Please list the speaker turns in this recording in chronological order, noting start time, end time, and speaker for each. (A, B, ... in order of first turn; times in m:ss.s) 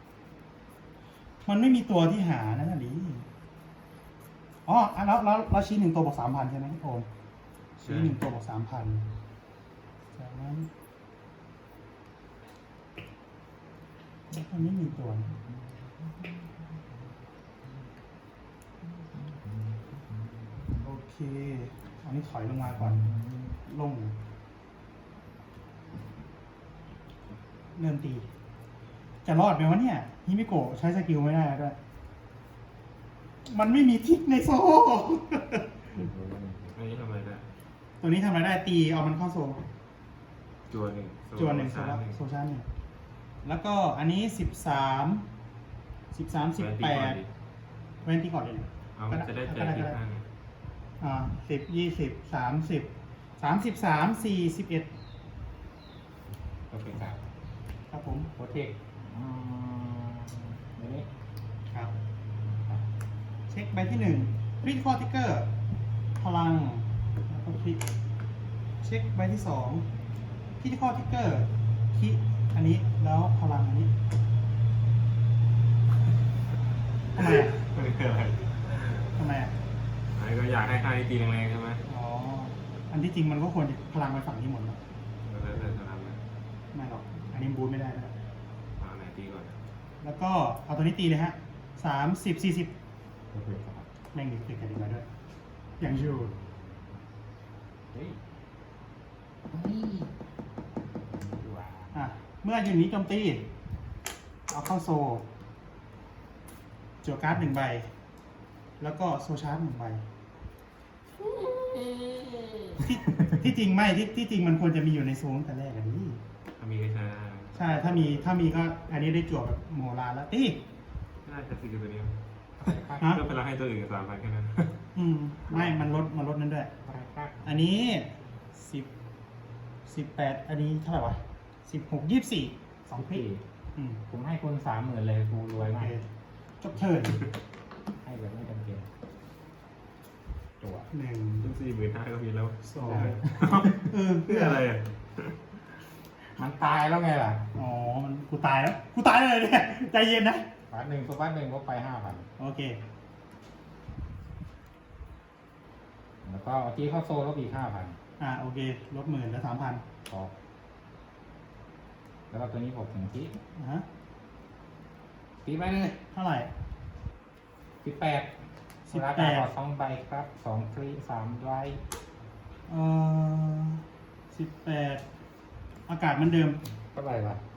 0:01.4-0:03.3 A
0:04.6-0:07.1 A
0:07.8-0:09.0 A
0:07.8-0:08.2 B
0:10.2-0:10.7 A
0:14.3-0:15.4 A
0:15.5-0:16.6 C
0:18.8-0:20.9 C
0:20.8-0:23.1 A
0:22.7-0:23.6 C
0:23.6-0:24.1 A
0:27.7-0:28.2 A
0:29.2-0:31.8 A
0:33.4-0:35.6 A
0:35.9-0:36.8 C
0:36.7-0:37.5 B
0:38.0-0:39.6 A
0:40.7-0:42.2 B
0:41.4-0:42.6 A
0:43.4-0:45.2 A
0:46.1-0:47.2 A
0:46.6-0:47.3 B
0:48.0-0:50.0 A
0:49.0-0:50.2 B
0:51.0-0:54.9 A
0:56.7-0:57.2 C
0:57.9-0:58.3 A
0:58.4-1:01.1 C
1:02.4-1:02.9 C
1:03.5-1:05.5 A
1:06.2-1:07.8 A
1:08.8-1:09.8 A
1:10.6-1:13.9 A
1:17.1-1:17.6 A
1:17.2-1:19.1 B
1:19.1-1:19.5 A
1:20.1-1:21.8 B
1:21.9-1:24.8 A
1:25.2-1:26.2 B
1:26.7-1:28.1 A
1:28.8-1:29.6 B
1:30.0-1:32.7 A
1:33.3-1:33.9 C
1:34.1-1:35.0 A
1:35.8-1:36.3 A
1:35.8-1:37.0 C
1:37.9-1:38.2 C
1:39.5-1:40.1 C
1:41.1-1:42.1 C
1:41.9-1:43.4 A
1:44.5-1:45.2 A
1:47.0-1:47.9 A
1:48.8-1:50.0 A
1:52.8-1:56.2 A
1:56.6-1:58.5 B
1:57.5-2:00.6 A
2:01.2-2:02.2 B
2:02.6-2:03.2 C
2:03.0-2:04.8 B
2:04.9-2:06.7 A
2:06.8-2:07.4 C
2:07.4-2:08.9 A
2:09.8-2:13.2 A
2:12.9-2:13.4 C
2:13.8-2:14.0 A
2:14.1-2:15.9 C
2:15.8-2:16.0 A
2:16.6-2:17.2 A
2:18.0-2:18.9 C
2:20.6-2:20.9 C
2:20.9-2:21.5 A
2:21.4-2:25.4 B
2:22.6-2:23.2 A
2:23.3-2:23.6 C
2:23.8-2:24.6 A
2:26.4-2:27.4 C
2:27.5-2:30.4 A
2:30.7-2:32.3 C
2:32.4-2:32.8 A
2:36.2-2:38.0 C
2:38.2-2:39.8 A
2:42.3-2:43.4 C
2:43.6-2:43.8 A
2:45.4-2:46.0 C
2:46.1-2:46.5 A
2:47.8-2:48.3 C
2:48.9-2:51.8 C
2:48.9-2:49.5 A
2:52.7-2:55.0 A
2:55.9-2:56.6 A
2:56.9-2:57.4 C